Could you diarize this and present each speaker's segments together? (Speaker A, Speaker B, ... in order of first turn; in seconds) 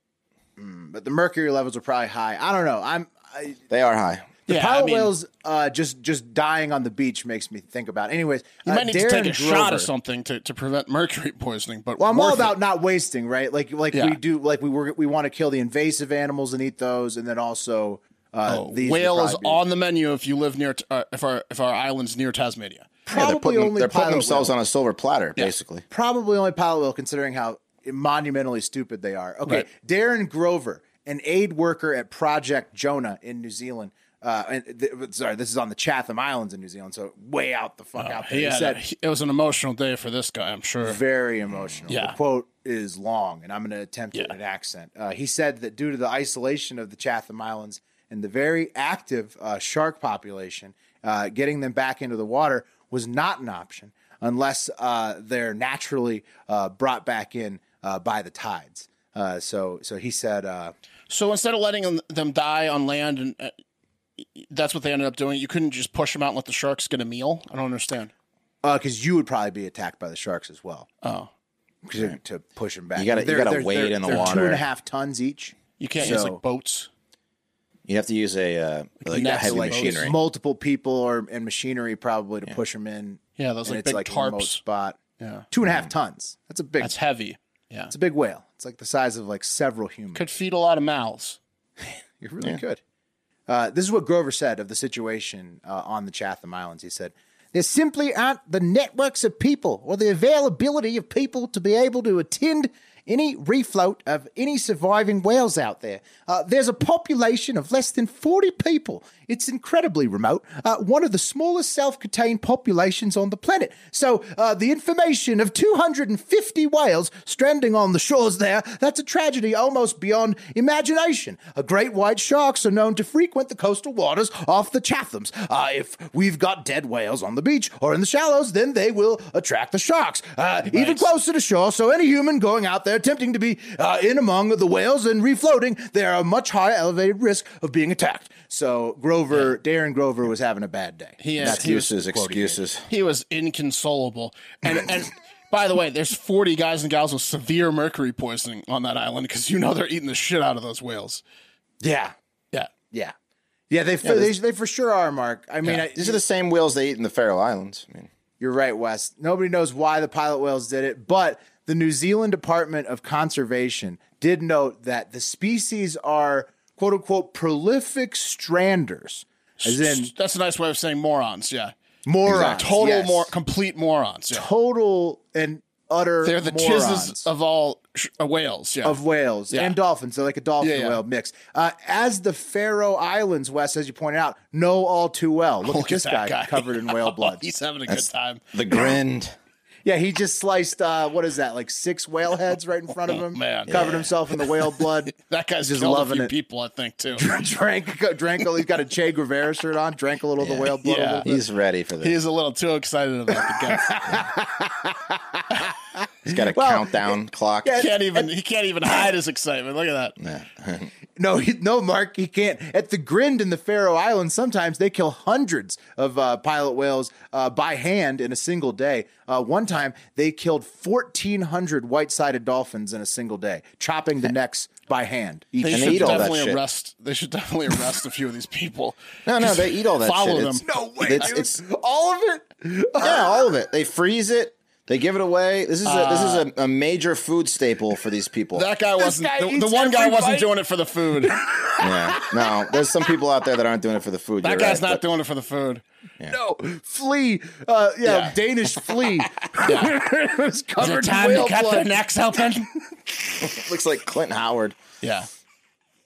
Speaker A: 0.6-3.6, 4.5-9.9, 12.0-19.6, 23.1-24.5, 25.9-38.8, 40.8-60.7, 68.6-70.9, 71.8-76.4, 79.1-86.9, 87.9-90.2, 91.9-92.8, 93.5-142.6, 151.8-152.1, 153.7-156.2, 158.4-170.1, 172.1-173.3, 174.3-177.3, 178.8-187.4, 189.8-196.3, 197.2-201.4, 203.5-205.7, 206.2-208.3, 211.2-226.3, 230.6-233.5, 239.0-240.5, 241.2-242.5, 246.3-251.9
Speaker B: 3.7-4.3, 23.1-25.9, 73.0-74.6, 77.9-80.1, 141.4-142.9, 154.0-154.3, 155.7-158.1, 172.3-172.6, 187.9-189.3, 193.7-194.1, 200.4-202.2, 206.2-207.8, 210.2-210.9, 225.7-226.6, 229.2-231.6, 233.0-238.7, 241.8-245.0, 253.4-254.8
Speaker C: 4.5-5.1, 8.6-12.5, 13.9-14.2, 18.5-23.0, 38.0-41.0, 41.9-42.2, 61.1-63.5, 64.2-68.1, 71.0-71.3, 75.8-76.9, 79.0-80.1, 83.4-84.6, 85.2-85.5, 86.8-87.9, 90.1-91.4, 130.7-131.1, 141.2-141.9, 142.9-151.2, 169.6-171.7, 172.3-174.5, 176.2-179.0, 179.5-179.8, 180.6-181.0, 185.6-188.9, 193.1-197.3, 200.8-201.3, 202.0-204.2, 207.8-210.2, 225.6-230.7, 235.8-236.4, 238.5-241.4, 244.4-245.8, 248.0-248.3, 249.6-250.0, 250.8-252.7, 255.0-255.3